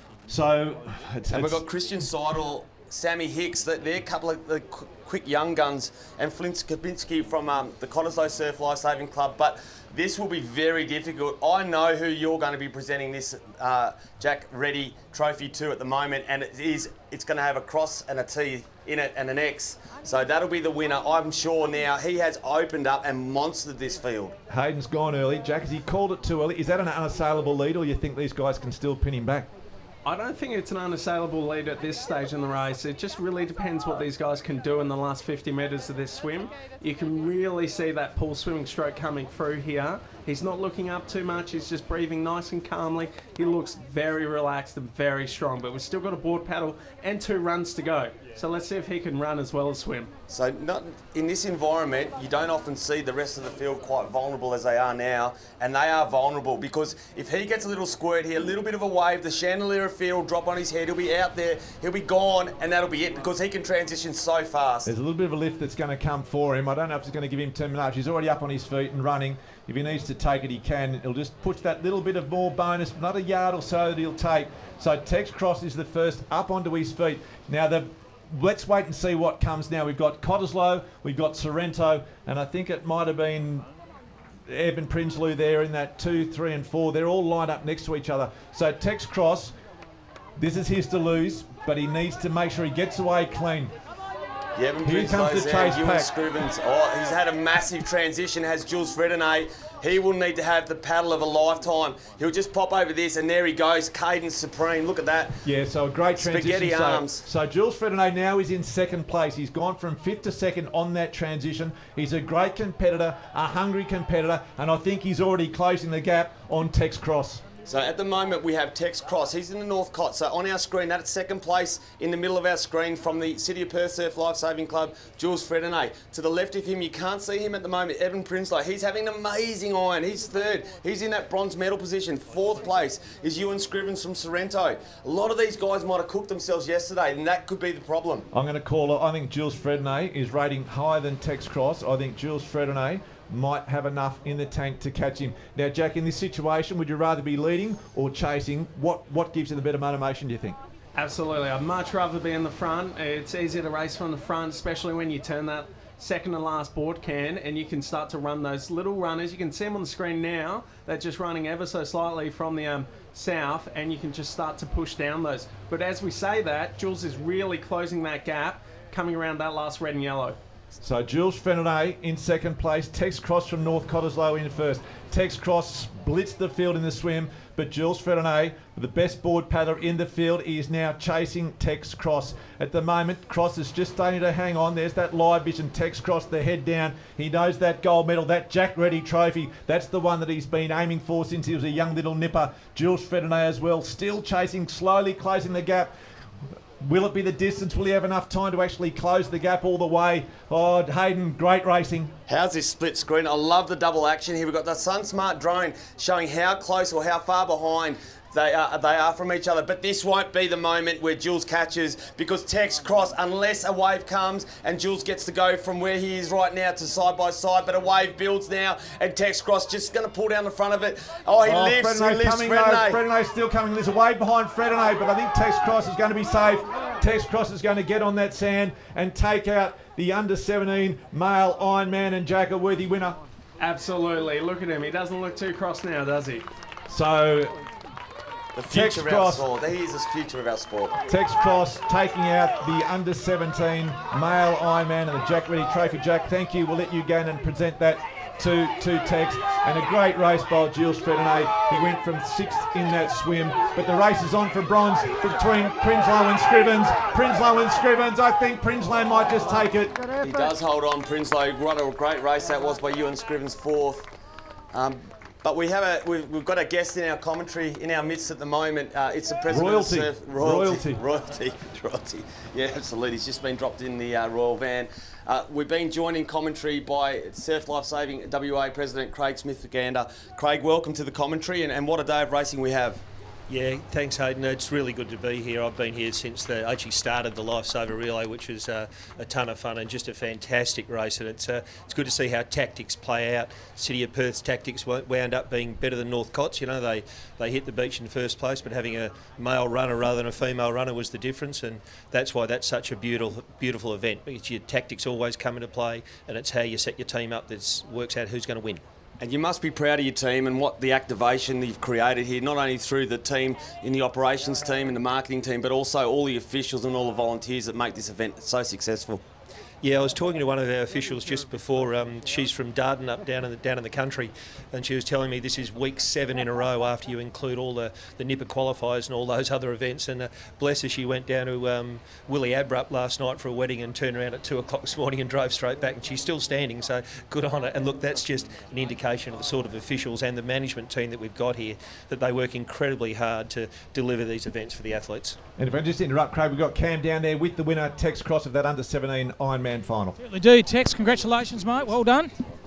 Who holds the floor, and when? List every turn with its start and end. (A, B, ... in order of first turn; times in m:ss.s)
0:00.3-0:01.6 A
0:01.3-0:24.3 B
0:24.5-0:29.5 A
0:30.0-0:50.1 C
0:50.3-1:04.9 B
1:04.8-1:23.6 A
1:24.5-1:29.5 A
1:30.4-1:33.7 A
1:34.5-1:45.4 B
1:34.8-1:36.1 A
1:45.4-1:57.4 A
1:46.2-1:47.2 B
1:57.6-2:18.3 B
2:18.3-2:30.6 A
2:30.9-2:50.4 C
2:50.8-3:15.9 A
3:16.8-3:22.1 A
3:22.3-3:43.0 B
3:41.4-3:53.2 A
3:53.6-3:56.5 C
3:56.9-3:57.5 A
3:58.5-4:00.9 B
3:58.7-3:59.5 A
4:01.1-4:20.0 A
4:20.2-4:24.1 B
4:24.7-4:43.0 B
4:29.5-4:31.0 A
4:43.5-5:08.8 D
5:09.2-5:19.2 B
5:19.8-5:45.4 D
5:45.6-5:50.2 A
5:50.2-5:52.3 E